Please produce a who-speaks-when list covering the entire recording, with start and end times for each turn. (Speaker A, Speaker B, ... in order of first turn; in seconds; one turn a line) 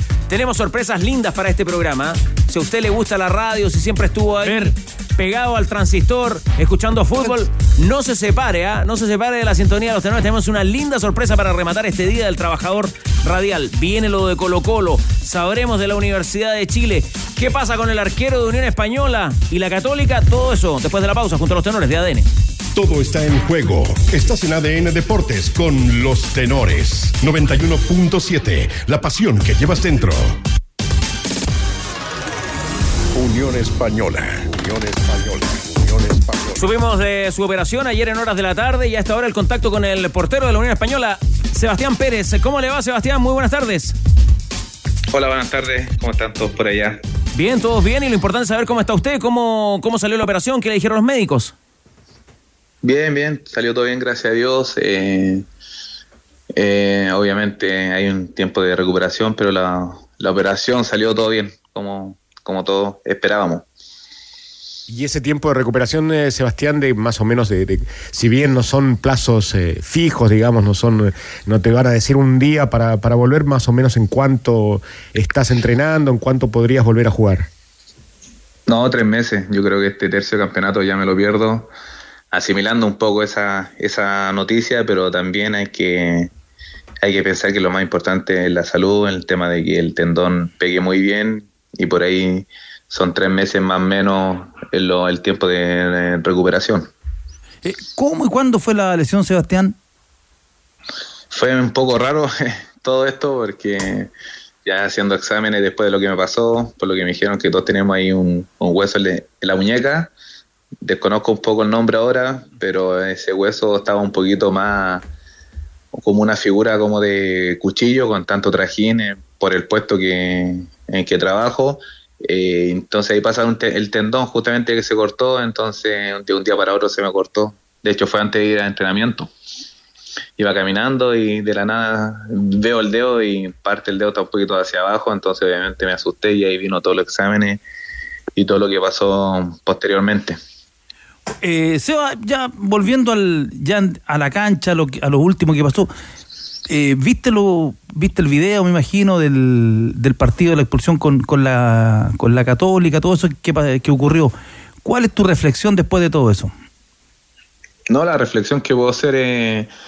Speaker A: 0.3-22.3
Speaker B: 4.4-4.8
Speaker C: 22.8-30.1
Speaker C: 33.1-36.6
Speaker A: 36.6-44.0
Speaker D: 45.1-47.0
Speaker A: 47.3-51.5
Speaker D: 52.8-55.4
Speaker D: 56.6-63.6
Speaker E: 64.9-77.5
Speaker D: 78.7-81.7
Speaker D: 82.3-86.3
Speaker D: 87.0-96.9
Speaker B: 97.6-99.8
Speaker D: 101.3-104.1
Speaker D: 104.7-110.1
Speaker D: 110.8-115.0
Speaker D: 115.9-129.3
Speaker D: 130.4-137.6
Speaker D: 138.4-140.4
Speaker B: 141.4-145.9
Speaker B: 146.7-156.5
Speaker D: 157.9-159.7